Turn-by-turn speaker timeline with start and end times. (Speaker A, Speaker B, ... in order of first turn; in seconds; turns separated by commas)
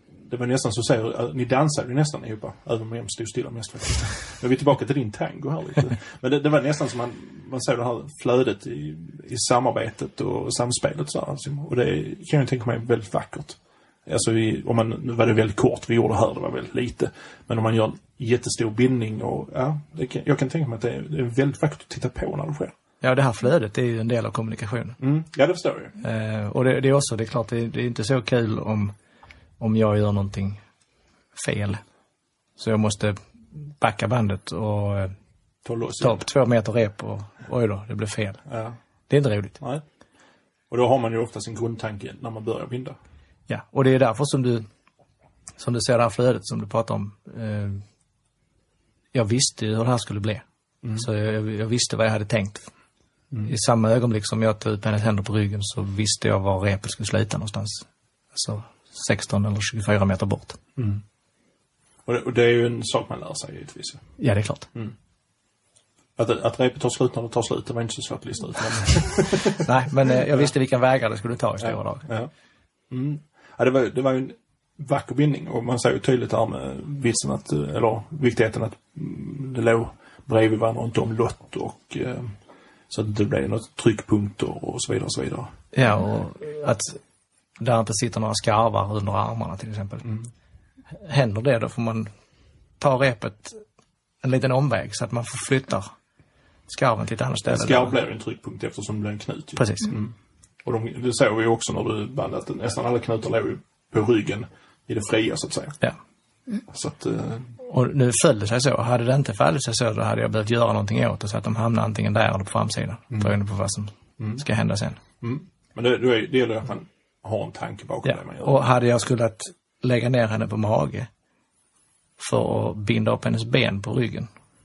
Speaker A: 0.2-22.7, Speaker B: 23.0-25.0, Speaker A: 25.0-25.9, Speaker B: 26.0-28.9, Speaker B: 29.6-30.6, Speaker B: 31.4-31.8, Speaker B: 32.6-35.1, Speaker A: 35.6-36.2, Speaker B: 36.0-38.4, Speaker A: 38.5-38.8, Speaker B: 39.1-39.6, Speaker A: 40.7-43.0, Speaker B: 43.5-44.6, Speaker B: 45.6-47.8, Speaker B: 49.1-50.4, Speaker A: 50.8-51.1, Speaker B: 51.0-52.6, Speaker B: 53.4-60.6, Speaker A: 60.8-61.0, Speaker A: 62.1-64.0, Speaker B: 64.2-64.7, Speaker A: 66.2-70.5, Speaker B: 69.5-72.1, Speaker A: 71.6-72.3, Speaker A: 72.9-82.3, Speaker A: 82.9-85.5, Speaker B: 85.7-87.0, Speaker B: 87.6-90.1, Speaker A: 90.0-90.3, Speaker B: 90.9-92.1, Speaker B: 92.8-93.6, Speaker B: 94.2-95.9, Speaker B: 96.7-98.0, Speaker A: 97.5-100.1, Speaker B: 99.6-99.9, Speaker A: 100.7-105.8, Speaker A: 106.7-107.5, Speaker B: 107.6-115.0, Speaker A: 115.2-118.6, Speaker B: 118.0-121.1, Speaker B: 122.2-124.3